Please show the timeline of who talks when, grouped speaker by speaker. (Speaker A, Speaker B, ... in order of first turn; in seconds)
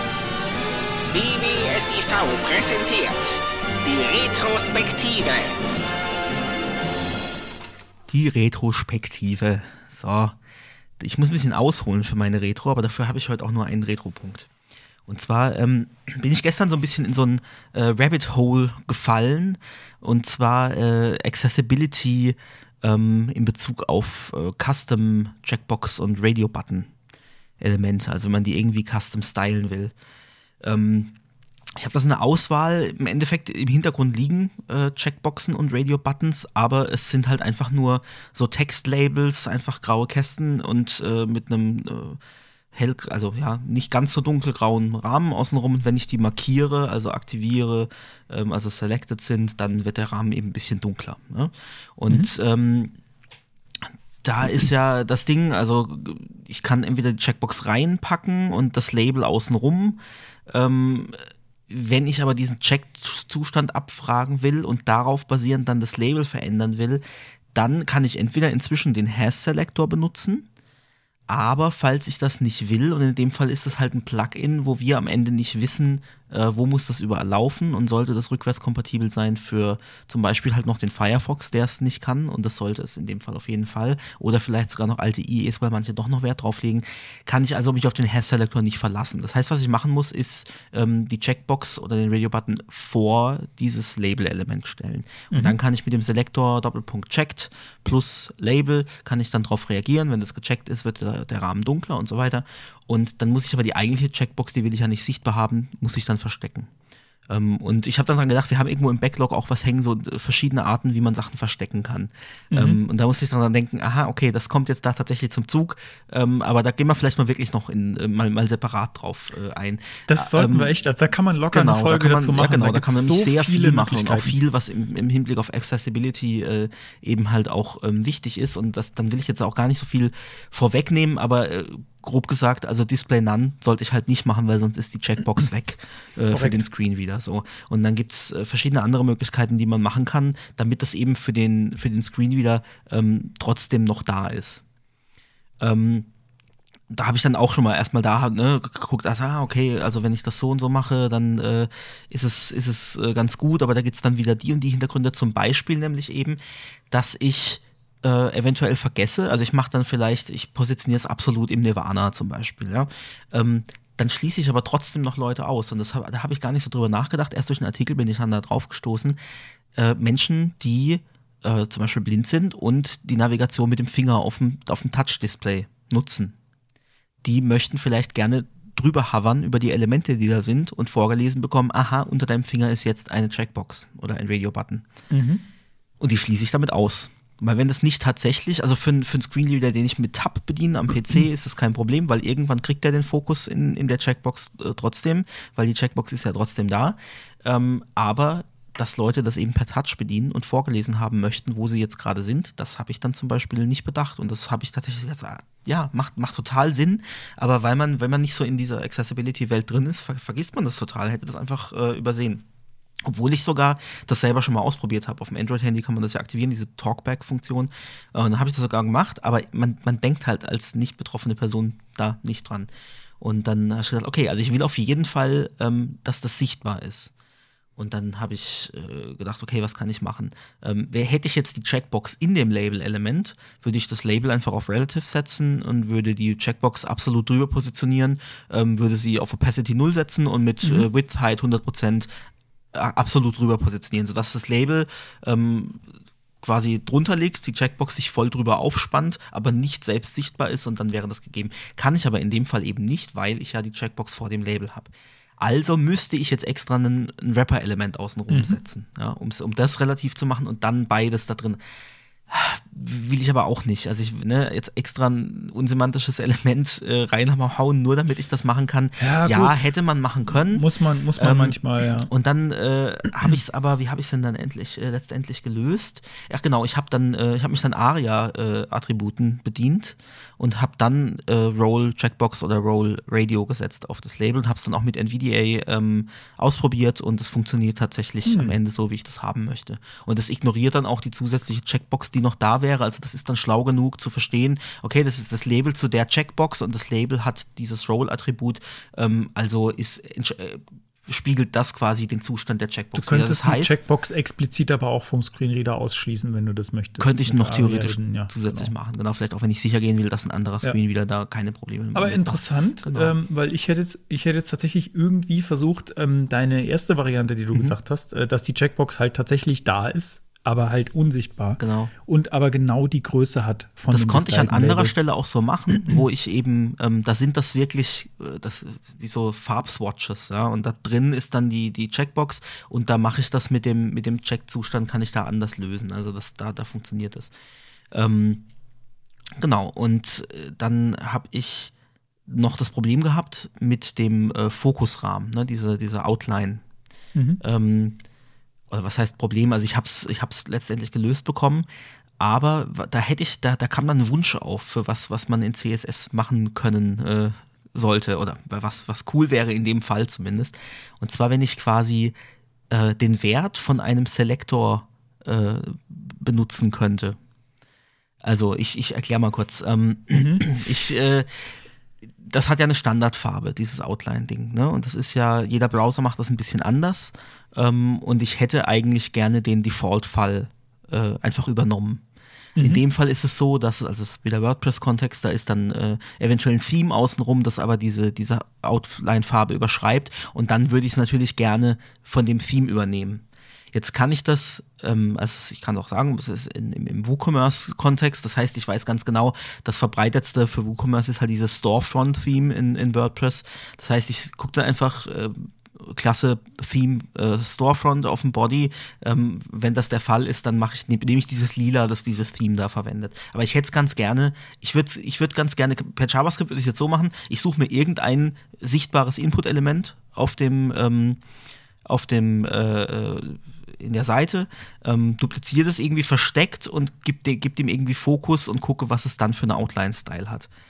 Speaker A: 1.1-5.6
Speaker B: 8.1-10.3, 11.0-14.5, 15.1-26.9, 27.6-29.9, 30.6-31.1, 31.8-42.2, 42.7-52.9, 54.2-67.0, 67.5-70.5, 71.3-106.7, 107.3-120.7, 121.5-144.6, 145.6-146.1, 146.9-156.4, 156.9-169.2, 169.7-176.3, 177.2-184.8, 186.0-212.4, 213.0-227.1, 227.8-242.1, 242.7-245.8, 246.4-261.6, 262.3-270.6, 271.2-303.7, 307.0-313.1, 321.6-321.9, 323.9-337.3, 337.9-338.4, 339.4-341.7, 342.3-346.6, 347.4-348.0, 348.7-351.7, 352.2-362.1, 362.7-367.2, 368.2-371.5, 372.2-382.0, 382.6-421.2, 421.9-430.5
Speaker C: 95.3-95.6, 112.5-112.8, 120.1-124.3, 136.3-136.6, 185.1-185.4, 258.3-258.6, 269.0-269.7, 270.3-272.1, 288.2-288.5, 302.9-308.7, 311.9-324.9, 347.1-347.4, 370.1-370.5, 382.6-382.8